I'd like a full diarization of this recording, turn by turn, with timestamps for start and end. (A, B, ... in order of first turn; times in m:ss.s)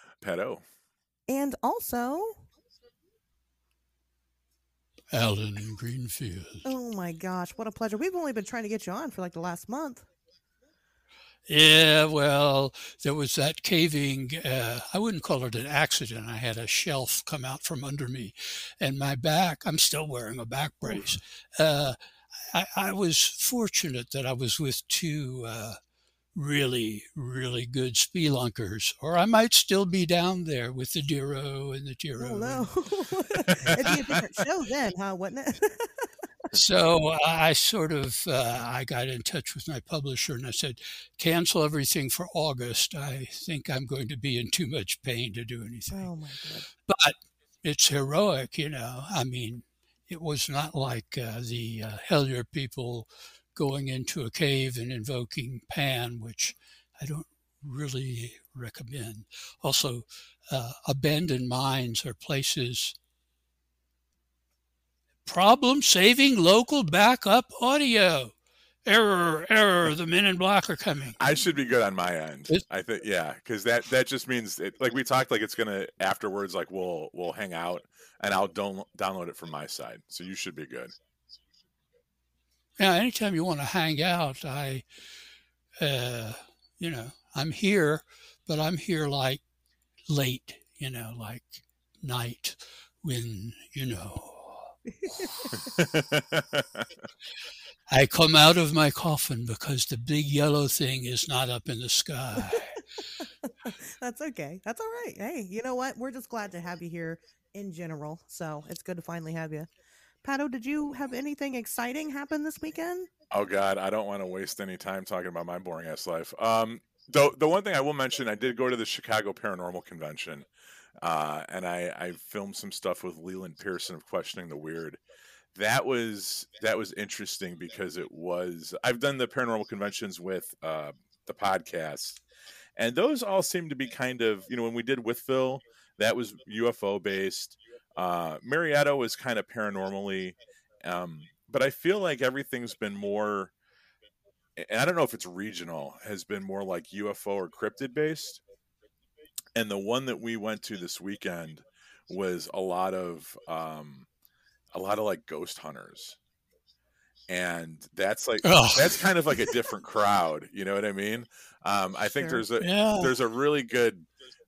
0:00.2-0:00.6 A
0:01.3-0:02.5 B
0:05.1-0:06.6 C
0:06.6-0:10.1 B
0:11.5-0:22.0 C
0:22.5-0:25.8 C
0:26.4-0:32.7 C
0:32.2-0:36.1 B
0:33.4-0:33.9 A
0:36.5-0:46.1 C
0:45.9-0:46.7 B
0:46.9-1:03.0 C
1:05.3-1:08.3 C
1:08.9-1:11.2 C
1:11.2-1:20.9 A
1:22.8-1:24.8 C
1:25.8-1:29.4 C
1:30.1-1:34.7 C
1:34.9-1:35.7 B
1:35.6-1:36.9 A
1:37.9-1:42.8 C
1:43.2-1:49.7 B
1:50.2-1:53.1 B
1:53.3-2:00.5 A
2:01.0-2:05.0 A
2:05.5-2:12.2 A
2:12.8-2:23.5 A
2:24.6-2:28.4 A
2:29.6-2:34.1 A
2:34.7-2:36.2 A
2:37.3-2:44.1 A
2:38.4-2:39.1 C
2:42.2-2:42.4 B
2:42.6-2:43.2 C